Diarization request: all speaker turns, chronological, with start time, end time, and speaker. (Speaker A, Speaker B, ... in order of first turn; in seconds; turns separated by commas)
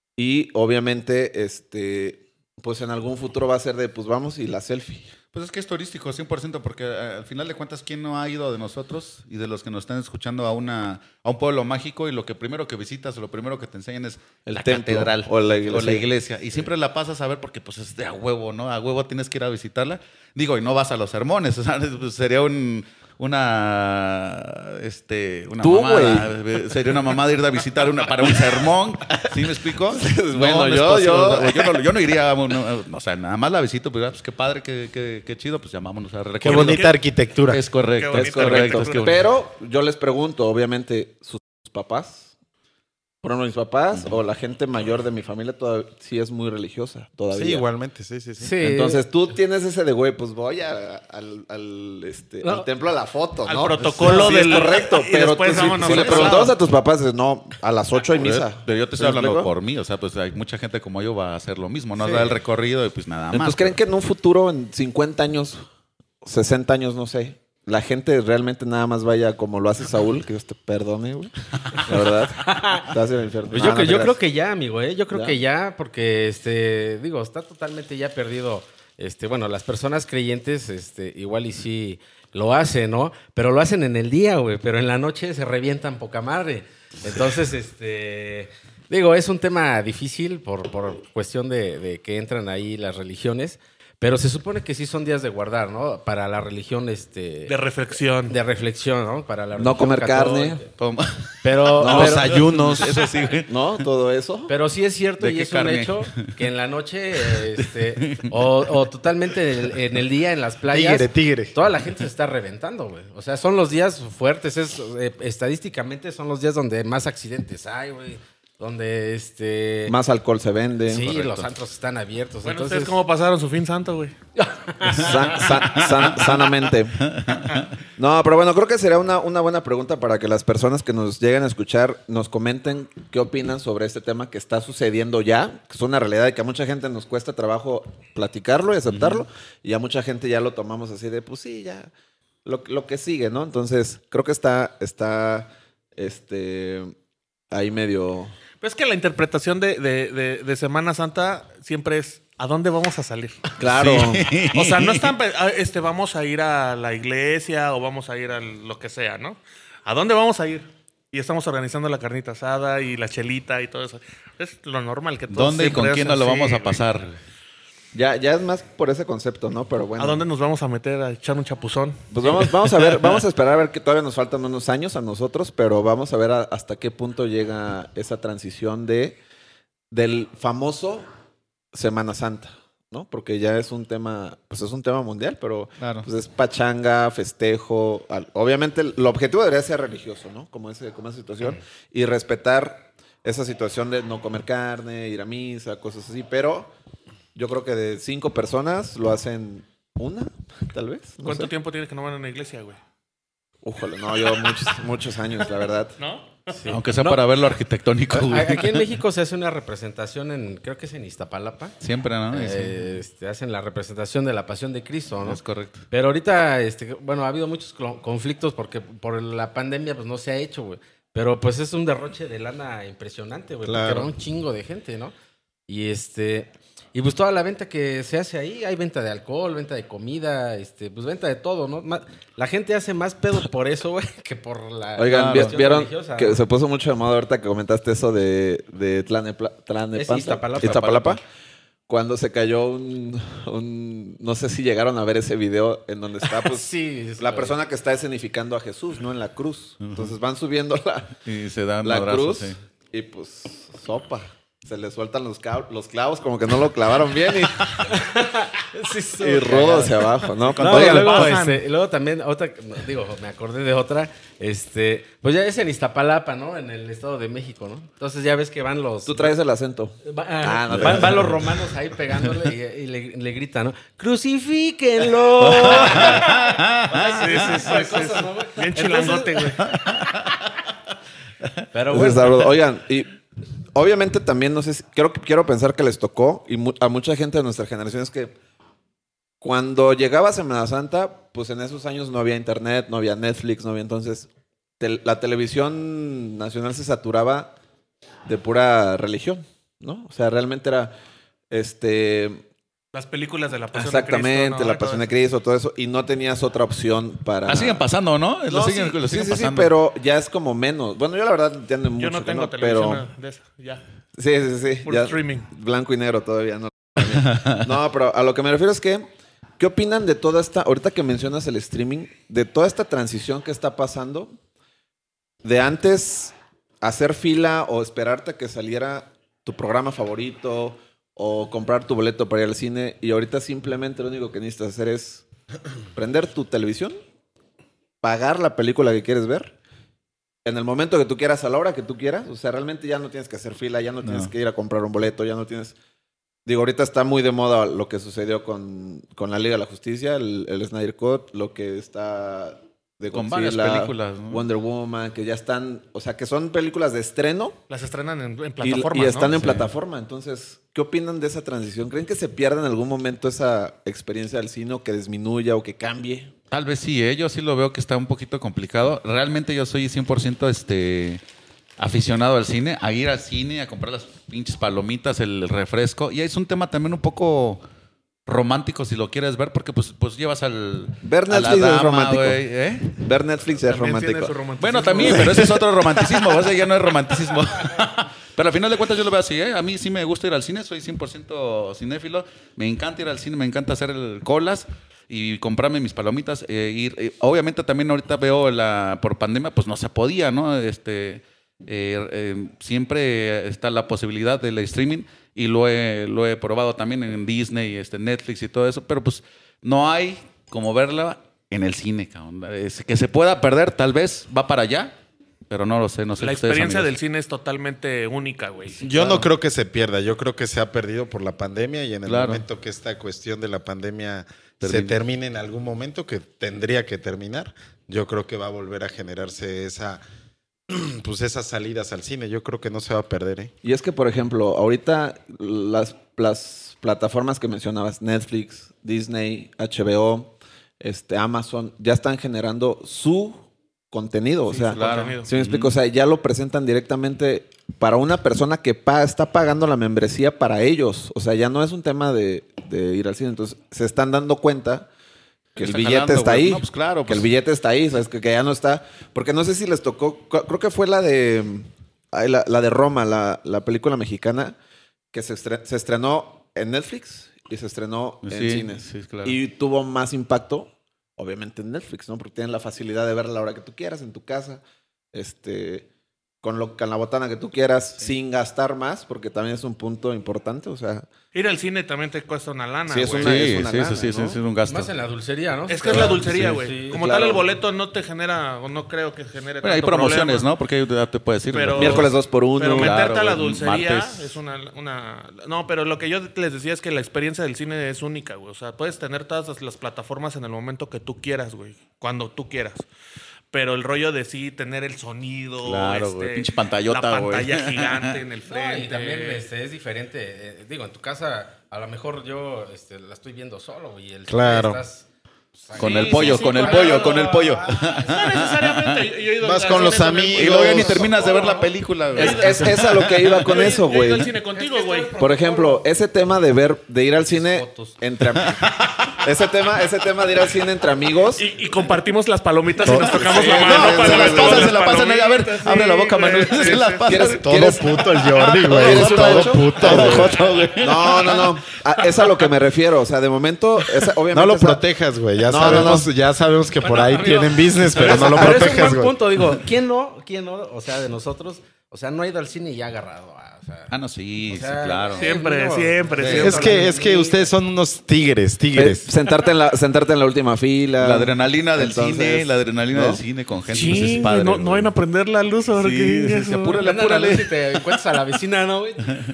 Speaker A: 0.2-5.1, Speaker B: 5.3-36.9, Speaker A: 14.5-16.1, Speaker A: 25.6-26.2, Speaker C: 25.7-26.2, Speaker A: 29.9-31.8, Speaker D: 36.4-37.6, Speaker E: 36.4-37.0, Speaker B: 37.5-39.2, Speaker E: 38.0-39.2, Speaker A: 38.1-42.3, Speaker A: 43.2-47.6, Speaker D: 47.3-48.5, Speaker C: 48.4-49.0, Speaker A: 48.6-59.5, Speaker C: 52.4-52.7, Speaker E: 53.5-56.6, Speaker B: 53.8-54.3, Speaker B: 55.6-56.5, Speaker B: 58.1-63.8, Speaker D: 62.0-62.4, Speaker A: 63.3-65.7, Speaker A: 66.2-74.2, Speaker C: 72.4-72.9, Speaker C: 73.5-97.6, Speaker A: 75.1-75.4, Speaker E: 97.5-98.4, Speaker C: 98.3-100.7, Speaker A: 99.6-100.6, Speaker B: 100.8-103.8, Speaker D: 101.4-103.1, Speaker A: 101.8-102.5, Speaker A: 103.5-104.5, Speaker C: 104.5-120.0, Speaker B: 105.2-106.3, Speaker B: 108.0-108.4, Speaker D: 110.7-111.5, Speaker A: 119.9-121.1, Speaker C: 120.9-123.0, Speaker B: 121.0-121.5, Speaker E: 122.5-124.2, Speaker C: 124.4-125.5, Speaker A: 124.8-127.1, Speaker B: 125.3-126.3, Speaker B: 127.0-127.7, Speaker A: 128.0-141.9, Speaker B: 138.9-139.2, Speaker A: 142.4-146.9, Speaker A: 147.5-148.3, Speaker E: 148.6-153.5, Speaker A: 153.6-154.4, Speaker B: 153.7-155.1, Speaker E: 154.5-166.8, Speaker B: 165.3-167.2, Speaker A: 167.9-170.2, Speaker E: 170.0-172.3, Speaker A: 172.1-179.2, Speaker A: 179.9-181.1, Speaker A: 181.7-196.7, Speaker B: 185.8-186.1, Speaker A: 197.3-201.5, Speaker E: 201.2-202.8, Speaker A: 203.6-206.0, Speaker E: 206.0-206.7, Speaker C: 206.5-207.3, Speaker B: 206.7-209.0, Speaker C: 208.1-211.8, Speaker B: 211.8-212.9, Speaker C: 212.3-225.1, Speaker B: 215.2-215.8, Speaker D: 223.7-224.1, Speaker C: 225.7-236.4, Speaker A: 235.0-241.2, Speaker B: 235.1-235.6, Speaker C: 239.9-241.2, Speaker A: 241.9-251.2, Speaker C: 246.3-247.6, Speaker B: 249.8-250.1, Speaker B: 251.2-252.6, Speaker A: 251.8-257.9, Speaker C: 257.8-269.3, Speaker A: 259.2-261.3, Speaker E: 260.6-261.6, Speaker B: 260.6-261.0, Speaker A: 269.1-271.6, Speaker C: 270.0-279.9, Speaker B: 275.4-277.7, Speaker E: 277.1-279.7, Speaker B: 279.7-280.2, Speaker C: 281.7-282.5, Speaker A: 281.9-283.2, Speaker A: 283.7-288.4, Speaker A: 289.4-294.3, Speaker A: 294.8-297.5, Speaker A: 298.2-300.9, Speaker A: 301.5-302.4, Speaker E: 302.9-305.1, Speaker A: 303.7-307.8, Speaker B: 307.5-309.7, Speaker A: 308.5-313.1, Speaker E: 312.0-313.8, Speaker A: 314.2-319.1, Speaker E: 314.9-315.5, Speaker A: 319.6-324.4, Speaker A: 325.4-335.2, Speaker A: 335.9-337.0, Speaker A: 338.0-339.6, Speaker A: 340.4-345.8, Speaker B: 344.0-344.3, Speaker A: 346.4-357.6, Speaker B: 353.1-354.4, Speaker E: 357.7-359.3, Speaker A: 358.6-366.3, Speaker B: 359.2-359.7, Speaker B: 366.5-371.2, Speaker B: 371.8-377.6, Speaker B: 378.3-383.1, Speaker A: 381.0-382.4, Speaker A: 383.0-384.4, Speaker E: 383.6-385.6, Speaker B: 384.6-414.9, Speaker A: 385.0-385.5, Speaker B: 415.5-416.9, Speaker E: 416.2-419.1, Speaker D: 418.8-430.0, Speaker B: 422.1-422.4, Speaker B: 424.6-425.0, Speaker D: 430.7-433.5, Speaker A: 433.6-454.9, Speaker E: 444.5-445.3, Speaker B: 444.8-445.7, Speaker B: 455.6-457.3, Speaker A: 455.6-464.6, Speaker A: 465.1-474.6, Speaker B: 468.2-469.4, Speaker A: 475.1-475.9, Speaker A: 476.4-481.1, Speaker E: 481.3-483.6, Speaker A: 482.9-484.4, Speaker B: 483.2-484.9, Speaker C: 484.7-487.0, Speaker E: 485.7-490.5, Speaker B: 485.9-486.6, Speaker A: 486.9-487.5, Speaker B: 489.6-492.1, Speaker E: 491.5-502.9, Speaker A: 491.8-493.0, Speaker B: 492.7-494.4, Speaker E: 503.5-509.5, Speaker B: 505.6-508.1, Speaker C: 508.5-518.2, Speaker D: 514.3-514.8, Speaker E: 515.7-517.4, Speaker B: 515.8-519.1, Speaker E: 517.9-521.6, Speaker D: 519.4-521.1, Speaker B: 520.3-523.7, Speaker C: 521.0-521.7, Speaker A: 522.1-524.3, Speaker E: 522.2-522.8, Speaker E: 523.5-525.4, Speaker C: 524.5-525.9, Speaker A: 525.2-528.7, Speaker C: 527.3-528.0, Speaker B: 528.6-528.9, Speaker A: 529.2-531.5, Speaker E: 531.3-537.4, Speaker B: 532.9-541.6, Speaker D: 532.9-533.4, Speaker A: 532.9-534.8, Speaker A: 537.1-544.8, Speaker D: 537.4-540.4, Speaker D: 544.3-549.2, Speaker A: 545.4-546.1, Speaker B: 545.6-545.9, Speaker B: 546.8-548.6, Speaker C: 548.0-553.9, Speaker B: 553.9-555.3, Speaker C: 554.5-557.5, Speaker E: 555.2-556.9, Speaker B: 556.2-556.6, Speaker D: 556.3-559.1, Speaker A: 558.8-563.2, Speaker B: 561.0-564.9, Speaker E: 563.7-566.8, Speaker B: 565.8-567.9, Speaker C: 566.8-569.2